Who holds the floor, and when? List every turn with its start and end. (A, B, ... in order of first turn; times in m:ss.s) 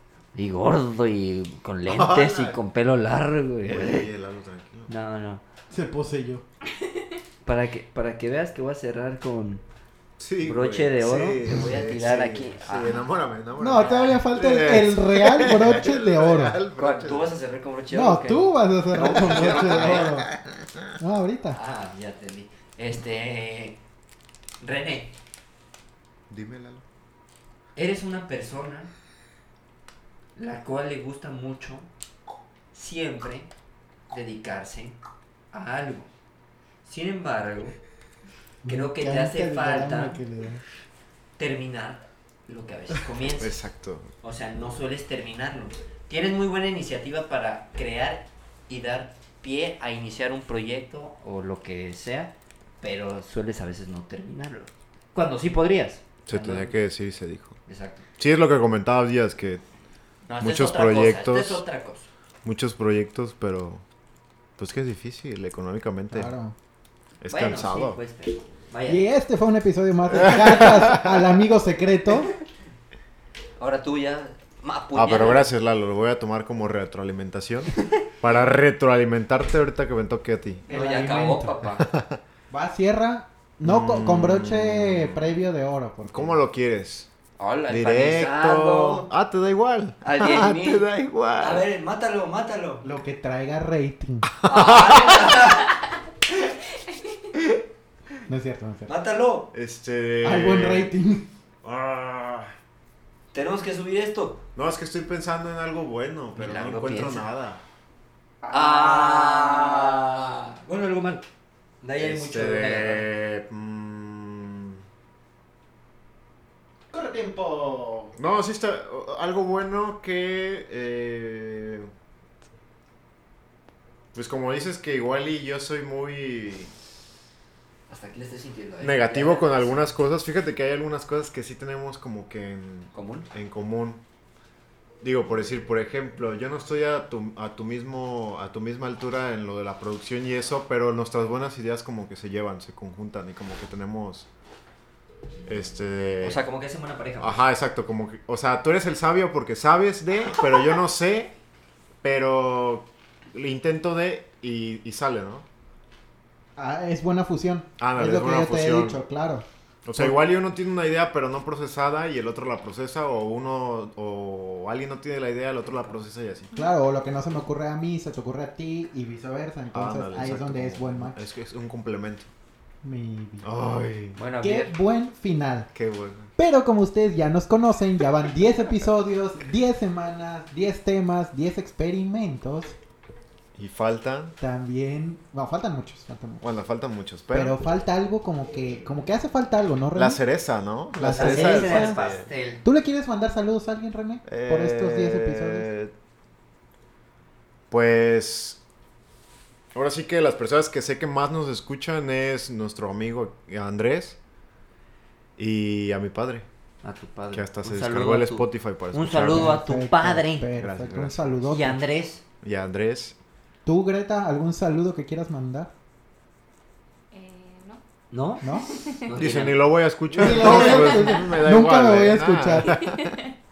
0:00.3-0:04.0 A
0:01.8-0:02.6 B
0:03.6-0:04.9 B
0:04.9-0:05.4 A
0:05.7-0:06.4 C
0:07.4-0:09.6 A
0:10.2-0:17.3 B
0:10.4-0:13.0 A
0:13.6-0:16.6 C
0:13.7-0:14.2 A
0:16.8-0:20.1 A
0:17.9-0:20.3 C
0:19.0-0:20.9 B
0:21.0-0:21.6 C
0:21.5-0:23.8 A
0:24.6-0:25.1 A
0:26.3-0:26.8 B
0:27.8-0:28.9 A
0:30.4-0:31.9 A
0:32.7-0:33.5 A
0:34.1-0:35.0 A
0:35.5-0:36.1 A
0:36.8-0:37.8 A
0:38.6-0:40.6 C
0:38.6-0:40.2 A
0:41.4-0:43.6 A
0:43.4-0:44.1 B
0:44.2-0:56.7 A
0:56.2-0:57.6 B
0:57.7-0:58.0 A
0:58.2-0:59.6 B
1:00.3-1:02.1 A
1:00.4-1:01.6 B
1:02.4-1:03.8 B
1:04.6-1:06.3 B
1:06.1-1:06.6 C
1:07.2-1:08.0 B
1:07.3-1:09.0 A
1:08.9-1:12.3 C
1:10.1-1:11.3 B
1:13.6-1:15.4 A
1:14.9-1:20.6 B
1:20.7-1:21.7 C
1:20.7-1:21.9 A
1:21.8-1:22.2 B
1:22.5-1:26.4 C
1:23.6-1:25.3 B
1:26.1-1:27.1 B
1:27.4-1:29.1 A
1:27.7-1:31.6 B
1:30.0-1:32.8 A
1:32.8-1:34.3 C
1:34.4-1:35.4 B
1:34.4-1:35.7 A
1:38.3-1:38.9 C
1:38.9-1:39.5 A
1:39.5-1:40.9 B
1:40.2-1:41.3 C
1:41.6-1:42.5 B
1:43.3-1:44.4 A
1:44.5-1:47.6 B
1:46.4-1:47.3 A
1:48.4-1:49.8 C
1:48.5-1:51.2 A
1:51.8-1:53.1 A
1:52.0-1:54.8 B
1:56.9-1:58.1 C
1:58.2-2:01.9 B
2:04.1-2:06.7 B
2:07.9-2:09.8 A
2:08.8-2:14.0 B
2:12.9-2:13.3 A
2:15.0-2:24.3 B
2:25.5-2:26.4 B
2:26.2-2:27.4 A
2:27.2-2:31.3 B
2:32.0-2:35.4 B
2:36.6-2:39.4 C
2:37.8-2:39.0 B
2:39.8-2:46.5 B
2:46.5-2:51.2 C
2:49.7-2:52.3 B
2:52.8-2:53.5 C
2:53.4-2:54.2 B
2:54.2-2:54.7 A
2:54.4-2:55.7 C
2:55.7-2:56.3 B
2:56.4-3:02.8 C
3:03.5-3:04.4 B
3:04.4-3:06.4 C
3:06.4-3:07.6 B
3:07.3-3:10.2 C
3:09.9-3:12.2 B
3:10.9-3:12.0 C
3:11.1-3:12.6 A
3:12.6-3:15.7 C
3:14.2-3:15.9 B
3:17.7-3:18.6 B
3:19.7-3:24.2 B
3:25.4-3:26.4 B
3:26.8-3:30.5 A
3:27.3-3:29.6 B
3:29.3-3:31.8 C
3:30.5-3:31.3 B
3:31.4-3:32.2 A
3:32.4-3:33.2 B
3:33.6-3:35.7 C
3:37.1-3:37.8 D
3:38.1-3:39.7 A
3:38.4-3:38.7 C
3:38.4-3:39.0 D
3:39.1-3:43.2 B
3:40.2-3:42.8 C
3:40.2-3:40.8 A
3:40.5-3:41.2 D
3:42.7-3:43.3 D